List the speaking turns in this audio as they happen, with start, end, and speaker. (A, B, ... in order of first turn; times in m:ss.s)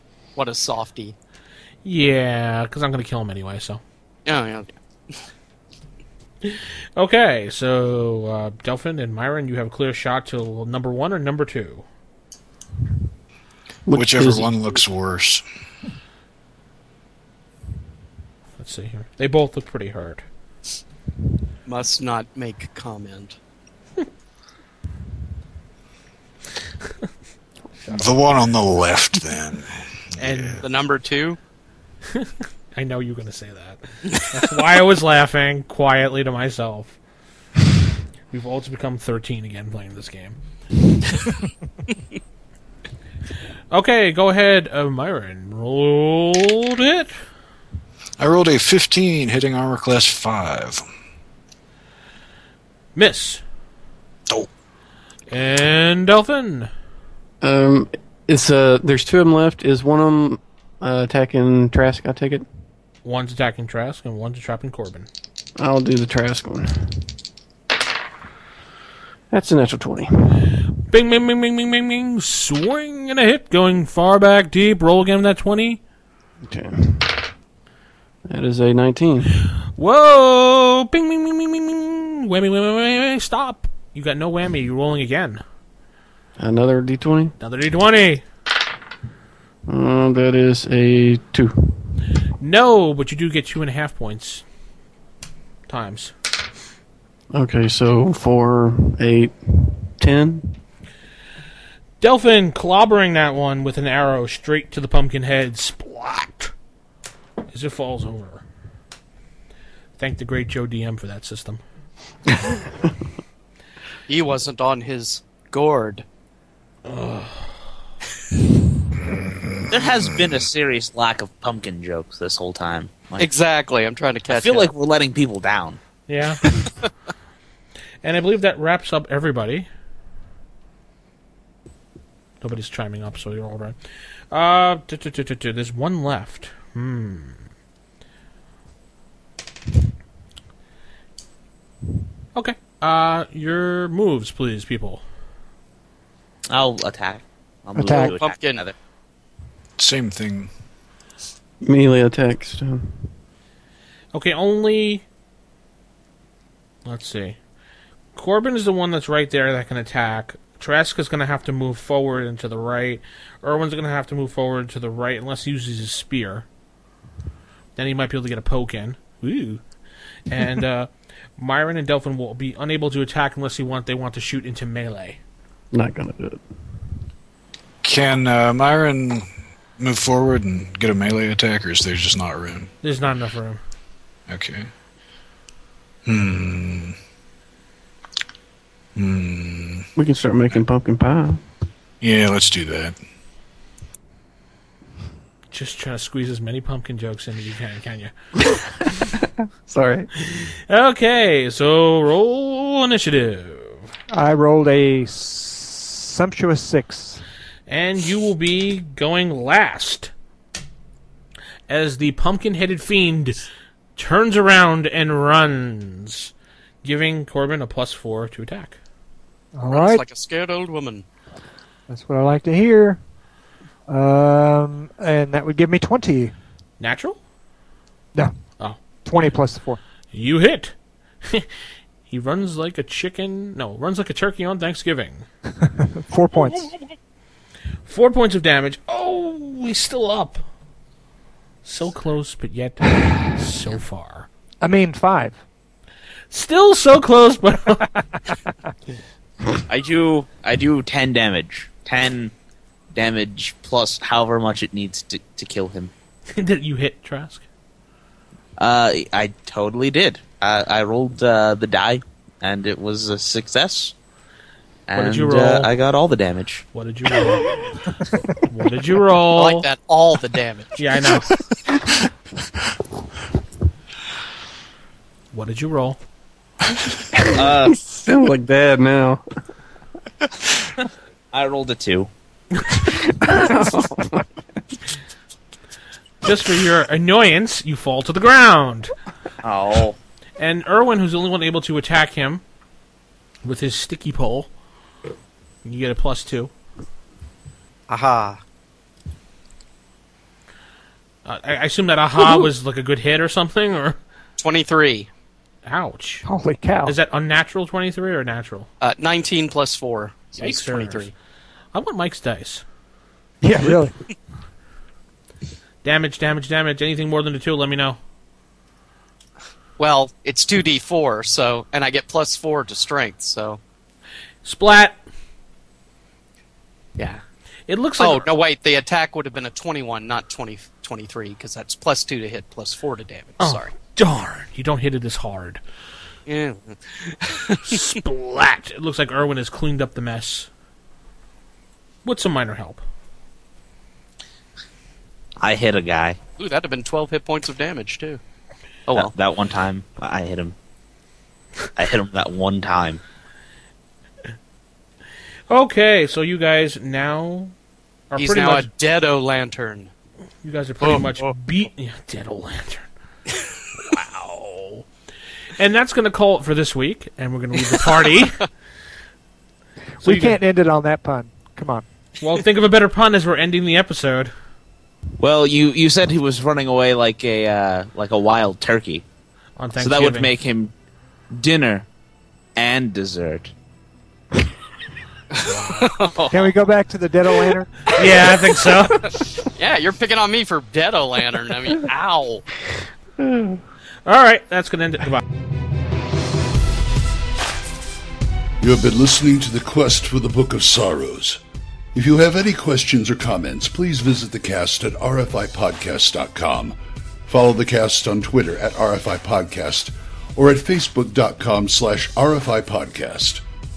0:00.4-0:01.2 A
0:01.8-0:03.8 B
0:04.2-0:05.2 A
0:06.4-0:11.8 B
0:13.8-0:14.5 C
0:13.9-0:15.4 D
0:18.6-0:20.2 B
0:21.6-0:23.4 A
0:27.9-0:30.6 D
0:30.2-0:30.6 B
0:30.6-0:31.4 A
0:32.1-0:37.0 B
0:38.3-0:40.4 B
0:43.7-0:47.2 B
0:48.2-0:50.8 D
0:52.9-0:53.4 B
0:55.3-0:56.7 B
0:57.4-1:02.4 C
1:03.0-1:05.1 B
1:05.6-1:07.1 C
1:09.3-1:10.6 C
1:10.9-1:15.8 B
1:16.5-1:17.3 C
1:18.2-1:19.4 C
1:19.7-1:25.4 B
1:26.4-1:27.3 C
1:27.4-1:28.2 B
1:29.7-1:31.9 C
1:32.4-1:34.4 B
1:35.7-1:36.1 B
1:37.3-1:40.6 C
1:42.0-1:46.5 B
1:47.5-1:48.4 B
1:50.0-1:51.6 B
1:54.1-1:56.0 A
1:56.8-1:57.7 B
1:59.7-2:03.3 E
2:03.2-2:04.7 A
2:04.3-2:05.8 E
2:06.1-2:06.5 B
2:08.0-2:09.7 B
2:12.4-2:13.8 B
2:14.3-2:17.4 B
2:22.3-2:25.0 B
2:26.5-2:28.7 E
2:27.7-2:28.2 F
2:27.9-2:28.6 A
2:29.8-2:30.5 D
2:31.6-2:33.1 C
2:34.1-2:35.0 B
2:36.8-2:37.4 B
2:38.1-2:46.4 B
2:47.8-2:49.6 B
2:50.3-2:55.2 B
2:55.7-2:56.4 C
2:57.8-2:59.2 D
2:59.8-3:02.7 D
3:02.8-3:03.6 B
3:04.3-3:04.7 D
3:06.0-3:07.0 D
3:08.9-3:09.9 D
3:10.0-3:11.4 C
3:12.0-3:13.0 D
3:15.5-3:18.1 B
3:18.5-3:20.1 C
3:20.2-3:23.9 B
3:24.1-3:27.2 F
3:27.7-3:30.1 B
3:31.7-3:33.4 B
3:34.0-3:36.3 B
3:36.8-3:38.8 B
3:39.5-3:40.0 F
3:39.7-3:41.0 A
3:41.9-3:43.0 F
3:43.9-3:46.3 F
3:46.8-3:47.2 B
3:49.0-3:49.8 F
3:50.1-3:51.5 B
3:52.1-3:55.2 B
3:55.6-3:56.7 F
3:57.8-4:00.4 B
4:01.6-4:04.3 B
4:04.6-4:05.4 F
4:06.3-4:08.0 B
4:09.7-4:12.3 E
4:12.9-4:15.9 E
4:16.3-4:17.4 B
4:18.6-4:23.9 E
4:24.9-4:26.6 E
4:24.9-4:25.7 B
4:26.7-4:27.6 B
4:28.4-4:29.6 B
4:29.3-4:30.8 A
4:30.8-4:31.3 B
4:35.3-4:36.0 B
4:37.2-4:37.8 E
4:37.3-4:39.2 C
4:41.3-4:42.1 E
4:43.0-4:44.3 C
4:46.2-4:48.9 B
4:49.4-4:50.0 E
4:50.4-4:52.4 B
4:53.4-4:54.5 B
4:55.6-4:56.5 B
4:57.9-4:58.4 A
5:01.2-5:04.0 B
5:04.4-5:05.1 A
5:05.6-5:06.2 B
5:06.2-5:07.0 F
5:06.8-5:08.7 B
5:08.8-5:11.1 A
5:10.4-5:11.1 B
5:11.7-5:12.6 B
5:13.4-5:13.9 F
5:15.8-5:18.0 B
5:19.8-5:23.6 A
5:24.4-5:25.0 B
5:27.7-5:28.3 B
5:28.0-5:33.7 A
5:33.4-5:35.6 B
5:36.3-5:37.7 A
5:37.6-5:40.5 B
5:42.0-5:42.8 B
5:45.4-5:46.2 E
5:46.4-5:48.2 A
5:48.9-5:50.5 E
5:51.8-5:53.0 E
5:55.5-5:57.5 B
5:58.1-5:58.7 B
5:58.2-5:59.9 A
6:00.4-6:02.9 B
6:00.8-6:01.3 A
6:03.8-6:04.9 B
6:05.6-6:08.4 B
6:10.0-6:11.8 F
6:10.0-6:10.4 B
6:12.2-6:14.3 B
6:15.2-6:19.0 E
6:19.6-6:20.3 B
6:19.8-6:20.7 E
6:21.3-6:21.8 E
6:22.6-6:23.5 E
6:25.3-6:26.5 A
6:25.5-6:25.9 B
6:26.3-6:27.7 F
6:27.9-6:29.1 B
6:29.0-6:32.4 A
6:33.2-6:33.6 C
6:34.0-6:35.2 B
6:38.6-6:41.4 G
6:41.9-6:53.4 G